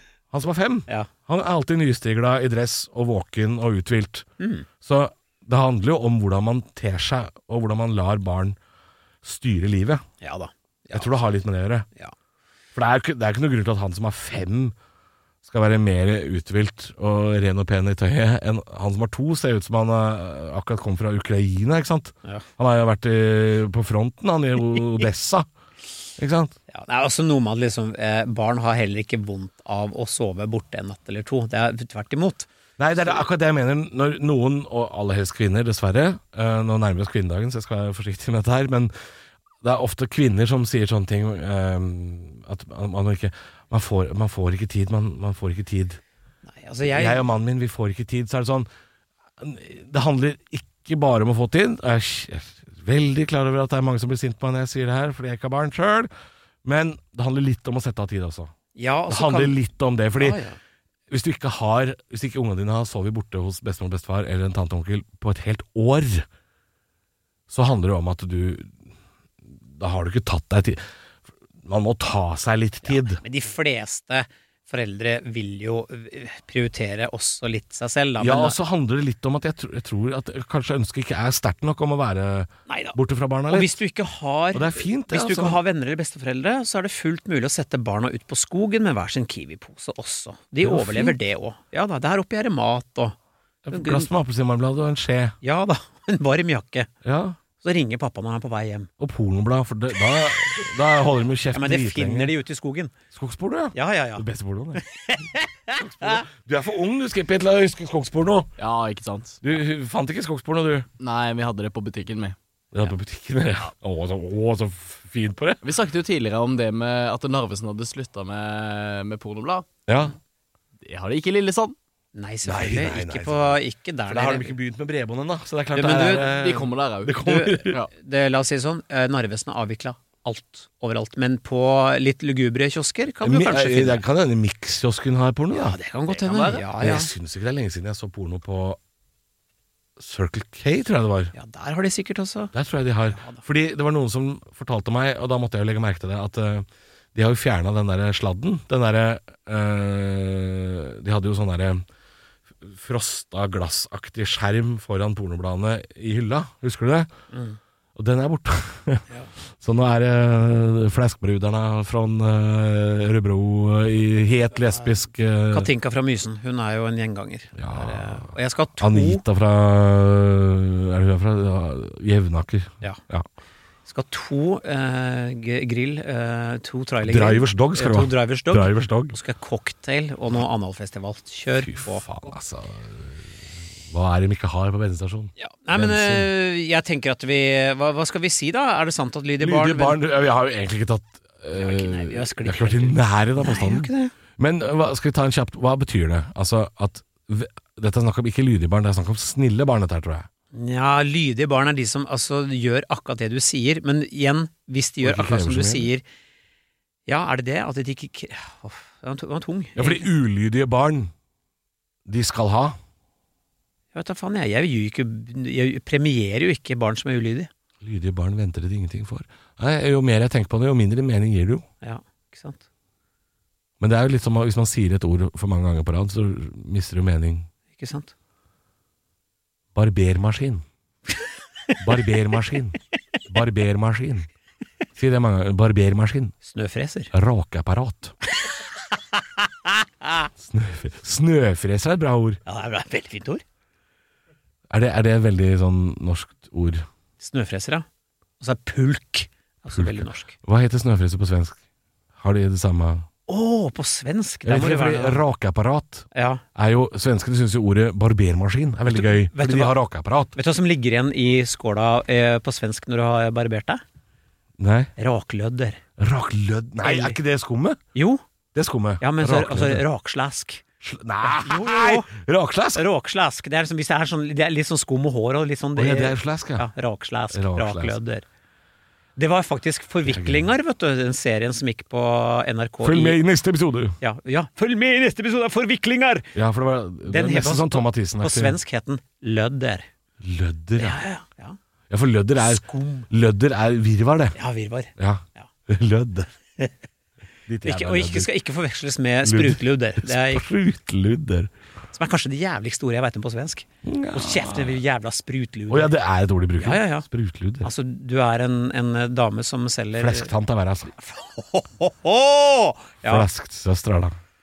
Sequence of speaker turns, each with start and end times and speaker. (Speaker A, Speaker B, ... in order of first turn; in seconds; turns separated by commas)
Speaker A: 0.3-4.3, Speaker B: 4.4-4.7, Speaker A: 4.8-8.6, Speaker A: 9.2-10.1, Speaker B: 10.2-11.2, Speaker A: 10.9-11.9, Speaker A: 12.8-14.8, Speaker A: 15.4-25.5, Speaker A: 26.2-26.6, Speaker B: 26.7-33.2, Speaker A: 32.8-38.9, Speaker A: 39.6-46.0, Speaker B: 46.5-47.2, Speaker A: 46.9-48.7, Speaker A: 49.4-56.1, Speaker A: 56.6-58.5, Speaker B: 58.8-59.6, Speaker A: 59.1-60.4, Speaker B: 60.2-60.6, Speaker A: 61.1-66.3, Speaker A: 67.5-68.8, Speaker A: 69.5-70.8, Speaker A: 71.6-73.2, Speaker B: 72.8-78.6, Speaker A: 78.2-83.8, Speaker B: 82.7-83.0, Speaker B: 83.5-93.2, Speaker A: 84.5-85.6, Speaker A: 90.6-91.2, Speaker A: 93.7-95.4, Speaker B: 93.7-94.1, Speaker B: 95.4-96.9, Speaker A: 97.0-97.4, Speaker B: 97.6-98.9, Speaker A: 99.0-102.3, Speaker B: 101.5-102.9, Speaker A: 103.1-104.8, Speaker B: 103.8-106.2, Speaker A: 105.8-108.5, Speaker C: 108.6-109.4, Speaker A: 109.4-110.9, Speaker C: 111.0-112.4, Speaker A: 112.7-115.6, Speaker C: 115.6-119.7, Speaker A: 119.9-120.2, Speaker C: 120.8-121.8, Speaker B: 122.2-124.5, Speaker A: 122.5-127.8, Speaker B: 125.7-126.3, Speaker C: 125.8-127.9, Speaker B: 127.2-134.0, Speaker A: 133.2-138.8, Speaker B: 135.5-137.1, Speaker A: 140.0-141.3, Speaker B: 141.3-142.5, Speaker A: 142.5-151.8, Speaker B: 143.1-143.4, Speaker A: 152.6-157.1, Speaker B: 157.3-157.6, Speaker A: 158.0-165.7, Speaker B: 165.5-169.2, Speaker A: 167.6-173.3, Speaker B: 173.9-182.0, Speaker A: 177.0-179.2, Speaker A: 181.5-186.3, Speaker B: 185.4-190.0, Speaker A: 189.4-200.3, Speaker B: 191.6-194.1, Speaker B: 200.5-206.0, Speaker A: 205.0-205.9, Speaker B: 207.1-210.1, Speaker A: 209.8-211.1, Speaker A: 212.1-212.8, Speaker B: 213.9-217.5, Speaker A: 217.8-221.7, Speaker B: 221.8-222.7, Speaker A: 223.8-227.5, Speaker B: 227.8-228.1, Speaker A: 229.8-230.7, Speaker A: 231.8-234.3, Speaker A: 235.0-236.3, Speaker B: 236.4-237.1, Speaker A: 237.1-238.2, Speaker B: 239.2-240.3, Speaker A: 240.4-242.4, Speaker B: 242.5-243.4, Speaker A: 244.7-246.9, Speaker B: 247.2-247.9, Speaker B: 248.4-250.3, Speaker A: 249.7-251.6, Speaker A: 252.2-253.1, Speaker B: 253.3-255.2, Speaker A: 254.4-260.4, Speaker B: 256.1-256.4, Speaker B: 258.9-259.8, Speaker B: 260.4-263.8, Speaker A: 264.6-264.9, Speaker B: 265.0-265.8, Speaker A: 266.0-267.8, Speaker B: 266.8-267.2, Speaker B: 267.9-268.2, Speaker A: 268.5-269.9, Speaker B: 269.0-270.6, Speaker A: 270.8-272.9, Speaker B: 271.2-272.1, Speaker B: 272.8-278.2, Speaker A: 275.8-276.7, Speaker A: 277.3-278.0, Speaker B: 279.2-283.2, Speaker A: 280.1-280.5, Speaker A: 282.8-284.0, Speaker B: 284.0-286.3, Speaker A: 286.4-288.6, Speaker B: 287.1-289.9, Speaker A: 290.2-291.0, Speaker B: 290.8-291.6, Speaker A: 291.9-294.4, Speaker B: 292.4-293.1, Speaker B: 294.4-295.5, Speaker A: 295.0-296.3, Speaker A: 297.5-298.3, Speaker B: 297.6-300.5, Speaker A: 299.2-301.5, Speaker B: 301.9-305.9, Speaker A: 303.8-304.8, Speaker A: 305.7-307.7, Speaker B: 306.6-307.1, Speaker B: 307.6-310.3, Speaker A: 309.9-310.9, Speaker B: 310.9-313.3, Speaker A: 313.1-314.2